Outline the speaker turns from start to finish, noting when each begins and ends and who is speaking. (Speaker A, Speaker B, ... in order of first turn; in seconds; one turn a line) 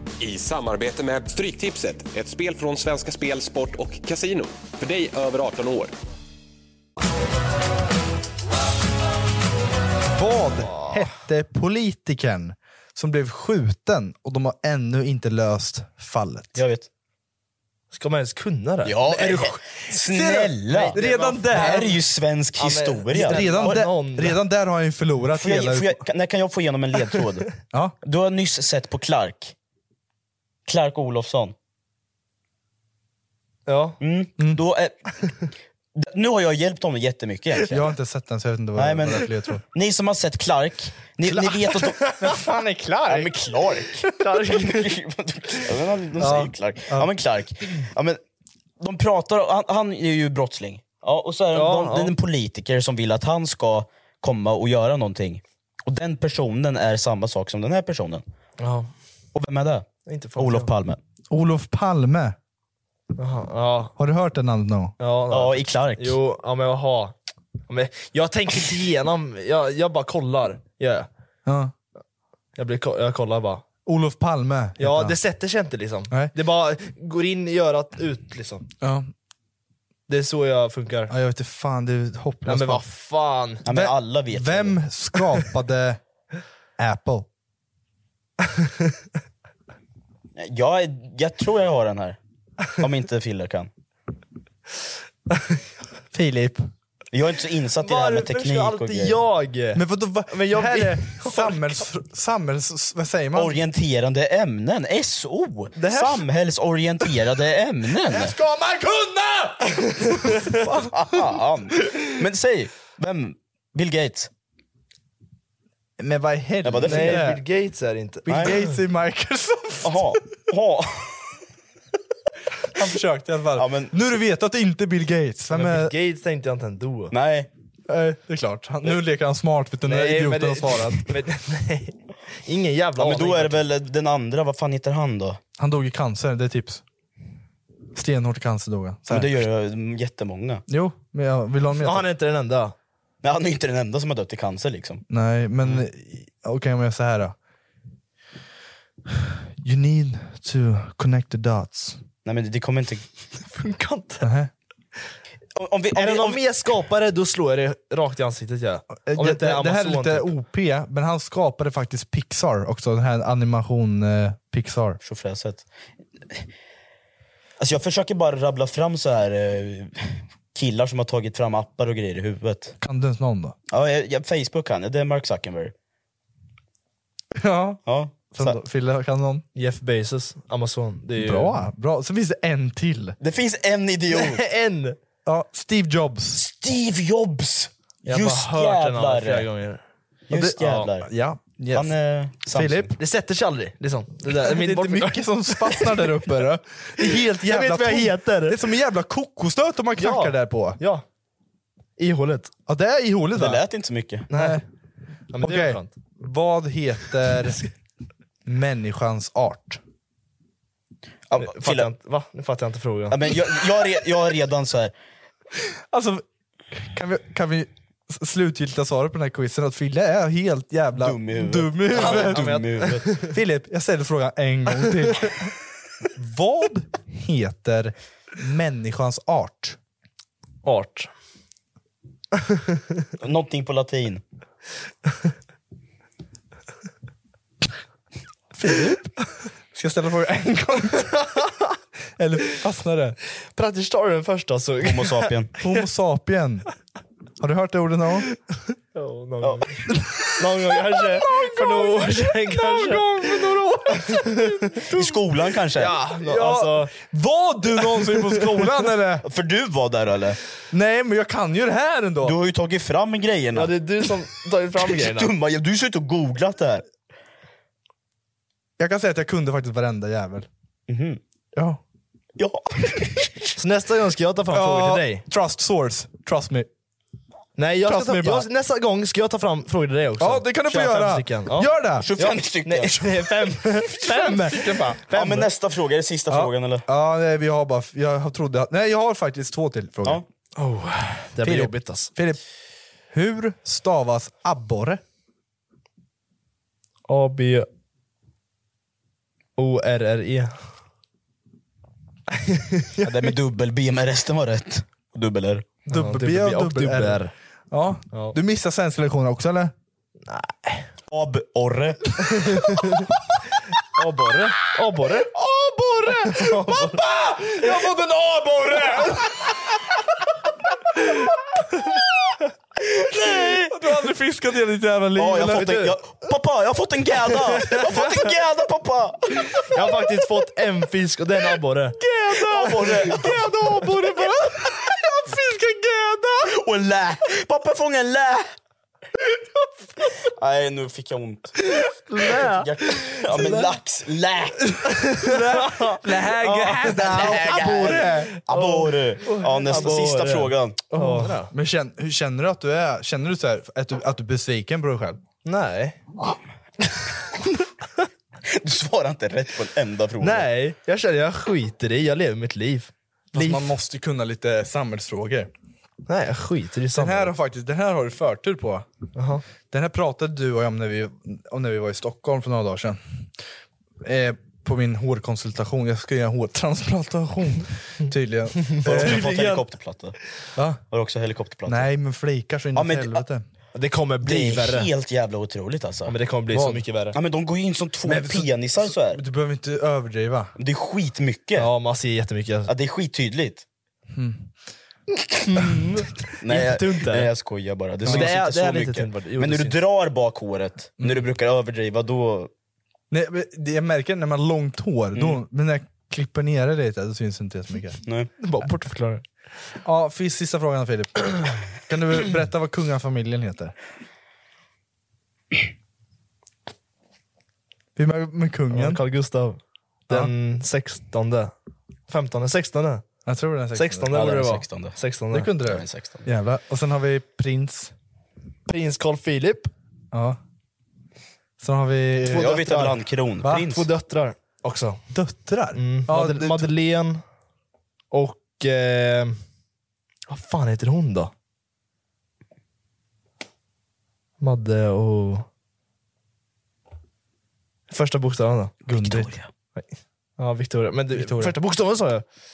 Speaker A: 0.2-5.9
Speaker B: 10.1-16.6
Speaker C: 16.5-16.9
Speaker D: 17.9-19.5
Speaker C: 18.8-23.9
Speaker B: 20.0-22.0
Speaker D: 20.7-22.0
Speaker D: 22.6-24.4
Speaker B: 23.1-26.0
Speaker C: 25.3-27.5
Speaker C: 28.0-29.5
Speaker C: 30.6-31.5
Speaker D: 33.7-34.0
Speaker C: 34.0-35.1
Speaker C: 35.9-37.9
Speaker B: 37.7-39.6
Speaker C: 38.8-42.1
Speaker B: 41.2-43.3
Speaker D: 41.9-42.3
Speaker C: 43.1-48.2
Speaker D: 44.1-44.9
Speaker B: 46.2-47.1
Speaker C: 48.8-58.2
Speaker D: 51.5-52.1
Speaker D: 58.6-58.9
Speaker C: 59.3-61.0
Speaker D: 60.0-60.7
Speaker B: 61.3-62.4
Speaker D: 63.2-63.9
Speaker B: 64.0-64.9
Speaker D: 65.0-67.1
Speaker C: 65.3-66.2
Speaker D: 67.7-71.1
Speaker B: 71.5-71.7
Speaker D: 72.5-73.6
Speaker B: 73.8-75.2
Speaker D: 74.8-78.7
Speaker B: 76.1-76.3
Speaker B: 78.8-79.1
Speaker D: 80.1-81.1
Speaker B: 81.1-82.8
Speaker D: 82.5-83.6
Speaker C: 83.6-84.8
Speaker B: 83.6-86.0
Speaker B: 86.8-87.3
Speaker D: 88.5-88.9
Speaker C: 90.4-92.2
Speaker C: 92.8-93.7
Speaker B: 96.1-96.7
Speaker C: 97.1-99.2
Speaker D: 97.8-101.8
Speaker B: 99.7-103.6
Speaker C: 103.3-108.3
Speaker D: 105.8-106.2
Speaker B: 108.0-111.2
Speaker D: 110.0-110.6
Speaker C: 110.8-114.3
Speaker B: 116.0-117.4
Speaker C: 116.6-117.3
Speaker D: 116.8-118.7
Speaker B: 118.2-120.2
Speaker C: 119.8-121.3
Speaker B: 122.7-125.9
Speaker C: 123.5-123.9
Speaker D: 125.5-127.1
Speaker C: 127.1-127.5
Speaker B: 127.9-131.0
Speaker D: 129.9-133.6
Speaker C: 133.0-135.4
Speaker B: 135.6-136.8
Speaker B: 137.9-139.4
Speaker C: 139.1-140.6
Speaker B: 140.7-142.1
Speaker D: 141.8-142.7
Speaker C: 143.2-145.0
Speaker B: 145.1-147.3
Speaker B: 149.2-152.0
Speaker C: 152.2-153.1
Speaker D: 153.5-154.3
Speaker B: 154.2-154.5
Speaker C: 155.6-156.4
Speaker D: 155.9-160.3
Speaker B: 159.0-165.0
Speaker C: 165.0-165.7
Speaker C: 167.6-172.7
Speaker B: 172.8-173.6
Speaker C: 173.7-175.7
Speaker B: 177.3-177.8
Speaker C: 177.8-178.6
Speaker B: 178.3-179.4
Speaker D: 179.5-181.6
Speaker B: 181.2-183.2
Speaker C: 183.2-184.4
Speaker D: 184.1-185.0
Speaker B: 185.2-186.4
Speaker C: 186.3-189.5
Speaker D: 188.1-189.8
Speaker C: 190.3-191.1
Speaker B: 190.3-191.9
Speaker D: 190.6-190.9
Speaker C: 191.7-192.9
Speaker B: 192.5-193.0
Speaker D: 193.0-196.0
Speaker B: 194.3-200.8
Speaker D: 197.0-198.6
Speaker D: 200.0-201.0
Speaker D: 202.0-202.6
Speaker B: 202.7-203.6
Speaker C: 203.3-204.3
Speaker D: 204.3-204.6
Speaker B: 204.3-204.6
Speaker D: 205.3-205.9
Speaker B: 205.4-207.6
Speaker B: 208.4-209.8
Speaker C: 211.3-211.9
Speaker D: 211.4-213.2
Speaker C: 213.1-214.9
Speaker B: 215.9-222.5
Speaker C: 220.9-223.1
Speaker D: 221.9-223.3
Speaker B: 223.3-225.5
Speaker B: 226.2-229.8
Speaker D: 230.6-231.1
Speaker D: 232.4-232.8
Speaker C: 233.2-234.2
Speaker B: 238.6-239.0
Speaker D: 238.7-238.9
Speaker B: 239.7-241.2
Speaker B: 242.2-243.2
Speaker D: 243.5-245.3
Speaker C: 244.8-245.5
Speaker B: 245.6-246.7
Speaker B: 247.4-248.3
Speaker D: 248.9-249.8
Speaker C: 249.4-249.7
Speaker D: 250.3-254.8
Speaker B: 251.2-255.1
Speaker C: 254.9-256.0
Speaker D: 255.7-256.9
Speaker B: 256.2-259.2
Speaker C: 259.2-260.4
Speaker B: 260.7-262.4
Speaker C: 262.2-263.8
Speaker D: 263.5-265.3
Speaker C: 264.8-266.8
Speaker B: 268.8-270.5
Speaker C: 270.9-271.2
Speaker B: 271.5-271.8
Speaker C: 272.4-273.5
Speaker D: 273.6-275.2
Speaker B: 274.5-276.7
Speaker D: 277.6-285.5
Speaker B: 277.8-278.5
Speaker B: 280.2-282.1
Speaker C: 282.0-283.1
Speaker B: 283.8-285.0
Speaker C: 285.1-286.8
Speaker B: 286.3-290.2
Speaker D: 290.6-292.1
Speaker B: 291.4-292.4
Speaker B: 293.1-295.0
Speaker D: 297.1-297.7
Speaker D: 299.6-300.6
Speaker D: 302.3-303.3
Speaker C: 303.0-305.7
Speaker B: 305.9-307.2
Speaker D: 305.9-307.3
Speaker B: 307.7-309.7
Speaker D: 310.3-310.9
Speaker C: 311.1-312.4
Speaker D: 312.3-313.0
Speaker D: 313.9-315.3
Speaker B: 315.3-319.5
Speaker D: 316.3-317.0
Speaker C: 322.8-323.7
Speaker B: 323.7-325.8
Speaker C: 325.1-330.0
Speaker D: 325.5-325.9
Speaker D: 327.5-328.0
Speaker D: 329.5-334.3
Speaker C: 332.3-334.9
Speaker B: 333.2-334.3
Speaker B: 335.2-336.4
Speaker C: 336.4-338.5
Speaker C: 340.2-344.8
Speaker D: 341.6-343.7
Speaker D: 345.0-346.0
Speaker B: 345.2-348.3
Speaker C: 346.4-350.8
Speaker D: 346.9-347.4
Speaker D: 348.4-351.5
Speaker B: 350.9-355.2
Speaker D: 355.4-356.0
Speaker C: 358.5-360.5
Speaker D: 360.2-363.6
Speaker B: 363.3-365.5
Speaker D: 366.1-367.3
Speaker B: 366.9-368.9
Speaker D: 369.1-369.4
Speaker B: 369.7-373.0
Speaker B: 374.0-379.4
Speaker D: 378.6-379.6
Speaker C: 378.8-380.2
Speaker B: 380.6-380.8
Speaker C: 380.9-381.9
Speaker B: 381.7-383.4
Speaker C: 382.7-383.2
Speaker D: 383.7-384.9
Speaker C: 384.2-386.1
Speaker D: 386.1-387.1
Speaker B: 386.5-386.8
Speaker C: 387.1-389.2
Speaker B: 388.0-390.5
Speaker C: 390.6-391.7
Speaker D: 391.6-392.7
Speaker C: 392.7-393.6
Speaker B: 394.1-394.5
Speaker D: 395.5-397.3
Speaker C: 396.4-402.5
Speaker D: 398.0-399.8
Speaker B: 398.1-398.4
Speaker B: 401.0-401.3
Speaker B: 403.1-408.0
Speaker C: 408.0-408.3
Speaker D: 408.4-409.2
Speaker B: 409.8-413.7
Speaker B: 417.9-419.0
Speaker D: 418.7-421.5
Speaker D: 422.1-423.0
Speaker B: 423.2-424.1
Speaker D: 423.7-425.5
Speaker C: 424.1-425.0
Speaker B: 425.3-427.9
Speaker C: 425.6-426.2
Speaker D: 428.7-429.7
Speaker B: 430.1-430.4
Speaker B: 431.6-433.8
Speaker C: 432.3-433.9
Speaker D: 432.4-432.9
Speaker D: 433.7-435.0
Speaker B: 435.1-436.7
Speaker D: 435.7-437.2
Speaker D: 438.1-439.4
Speaker D: 440.3-441.3
Speaker D: 444.4-445.4
Speaker D: 447.9-448.7
Speaker C: 448.9-449.5
Speaker B: 448.9-449.3
Speaker D: 450.4-452.2
Speaker B: 451.1-451.6